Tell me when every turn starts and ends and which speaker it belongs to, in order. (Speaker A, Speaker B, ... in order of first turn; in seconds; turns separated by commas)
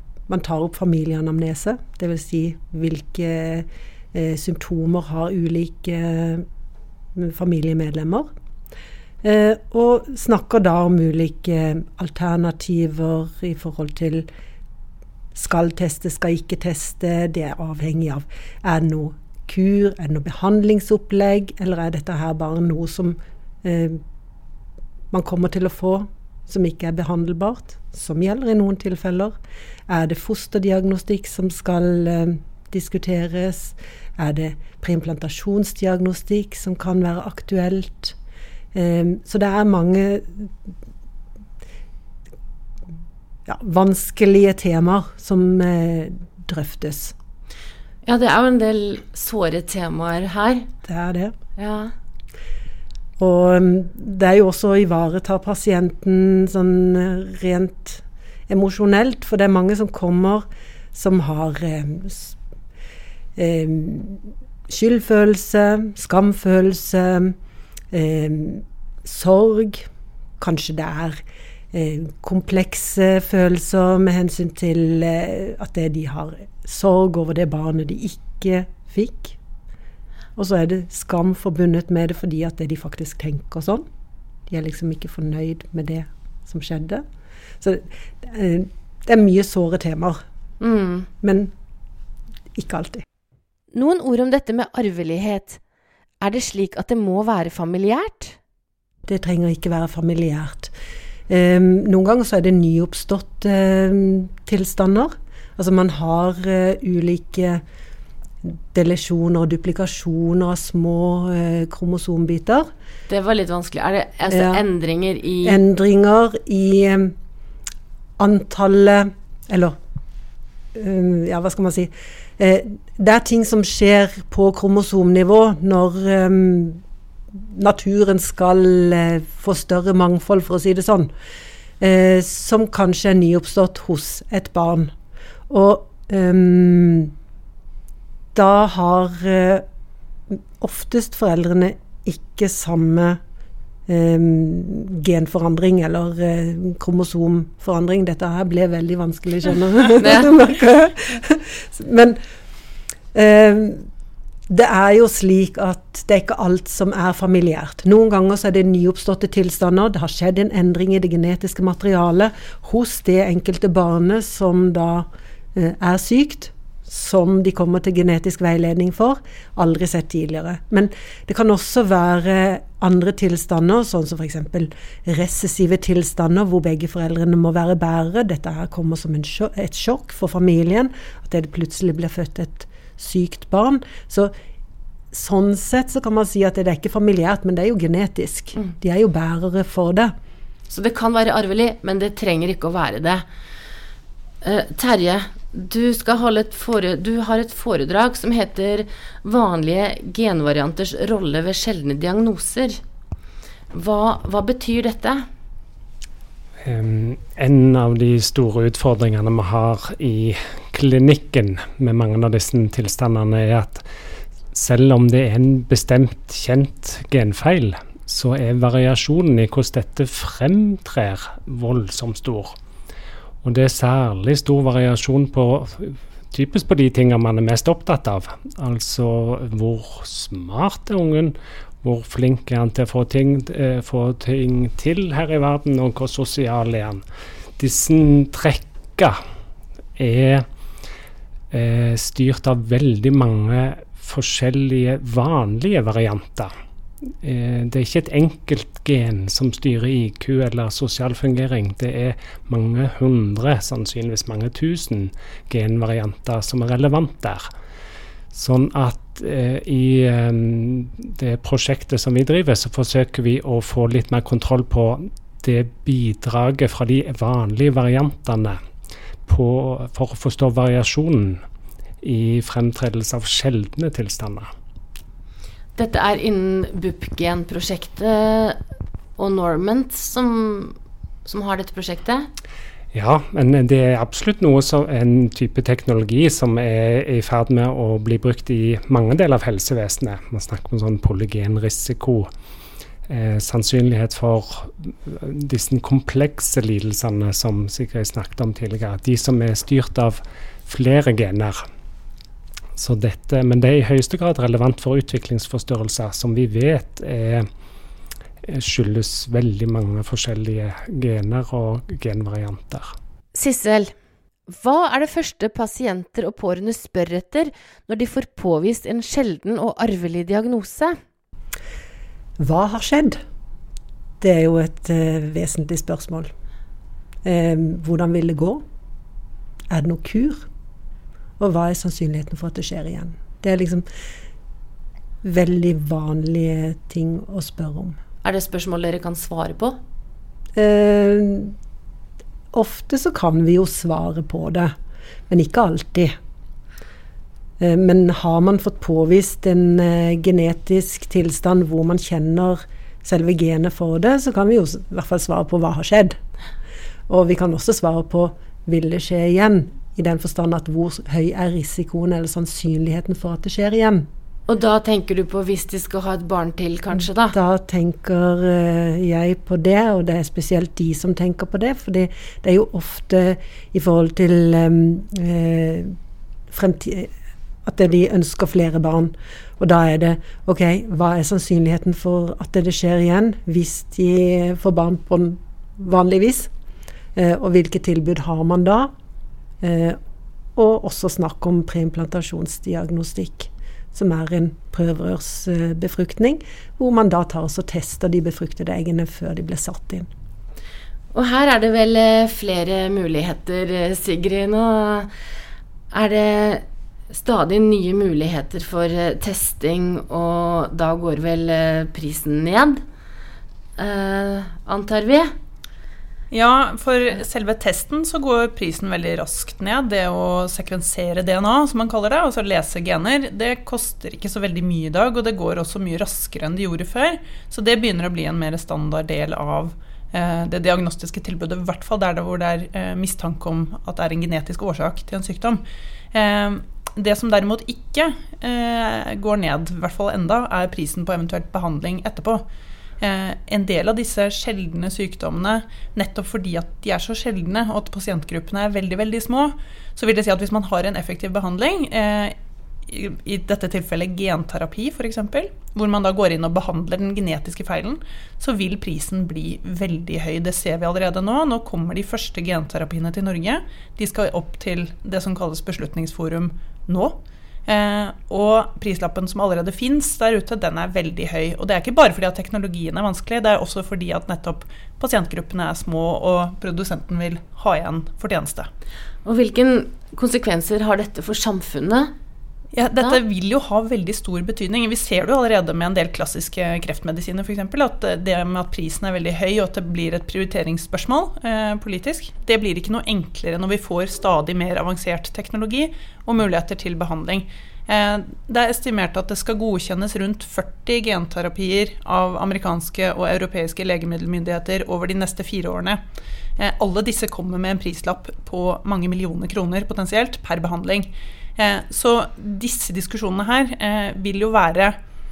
Speaker A: 0.3-6.5, Speaker A: 7.2-8.3, Speaker A: 9.2-14.3, Speaker A: 15.3-24.0, Speaker A: 25.1-29.4, Speaker A: 29.9-38.2, Speaker A: 38.7-40.5, Speaker A: 43.5-47.1, Speaker B: 48.1-50.7, Speaker A: 50.9-51.3, Speaker B: 51.6-51.9, Speaker A: 53.2-62.4, Speaker A: 63.4-67.4, Speaker A: 67.9-69.9, Speaker A: 70.4-71.2, Speaker A: 71.7-79.4, Speaker A: 80.4-83.8, Speaker A: 84.5-87.0, Speaker A: 87.6-90.2, Speaker B: 90.6-91.1, Speaker A: 91.2-91.5, Speaker A: 92.5-93.0, Speaker B: 93.7-95.6, Speaker B: 96.2-98.4, Speaker A: 99.0-100.7, Speaker A: 101.3-107.6, Speaker A: 108.4-112.7, Speaker B: 113.1-115.6, Speaker A: 114.3-114.6, Speaker A: 115.4-117.2, Speaker A: 118.2-119.8, Speaker A: 120.7-126.8, Speaker A: 127.3-131.1, Speaker A: 131.8-134.9, Speaker A: 135.5-137.1, Speaker A: 138.3-139.7, Speaker A: 140.3-143.2, Speaker A: 143.9-152.2, Speaker A: 153.1-153.9, Speaker A: 154.5-184.3, Speaker A: 185.1-190.1, Speaker B: 190.7-193.2, Speaker B: 194.4-202.8, Speaker B: 203.7-205.3, Speaker C: 206.6-213.8, Speaker C: 214.5-222.6, Speaker C: 223.4-237.0, Speaker C: 237.6-239.2, Speaker C: 240.0-240.5, Speaker C: 241.5-246.5, Speaker C: 247.2-257.5, Speaker C: 258.3-268.6, Speaker C: 269.3-271.4, Speaker C: 272.0-274.5, Speaker B: 275.8-278.6, Speaker B: 279.2-282.3, Speaker C: 282.9-292.3, Speaker C: 293.1-301.6, Speaker C: 302.8-307.5, Speaker C: 308.4-312.9, Speaker B: 313.3-313.9, Speaker B: 314.5-321.0, Speaker A: 322.4-323.2, Speaker A: 324.2-326.3, Speaker A: 327.2-328.6, Speaker A: 329.7-330.5, Speaker A: 331.4-333.9, Speaker A: 335.2-338.0, Speaker B: 338.2-339.8, Speaker A: 340.6-341.6, Speaker A: 342.5-344.7, Speaker A: 345.3-346.2, Speaker A: 347.6-356.2, Speaker A: 357.1-364.1, Speaker B: 364.5-367.4, Speaker A: 367.3-375.9, Speaker A: 376.5-377.1, Speaker A: 377.6-386.5, Speaker A: 387.1-388.9, Speaker A: 389.6-390.0, Speaker A: 390.6-400.1, Speaker B: 401.1-405.1, Speaker B: 405.9-412.8, Speaker B: 413.8-415.3, Speaker D: 416.3-442.4, Speaker D: 443.0-452.4, Speaker D: 452.9-478.7, Speaker B: 479.2-482.1, Speaker D: 482.7-506.0, Speaker D: 506.6-515.0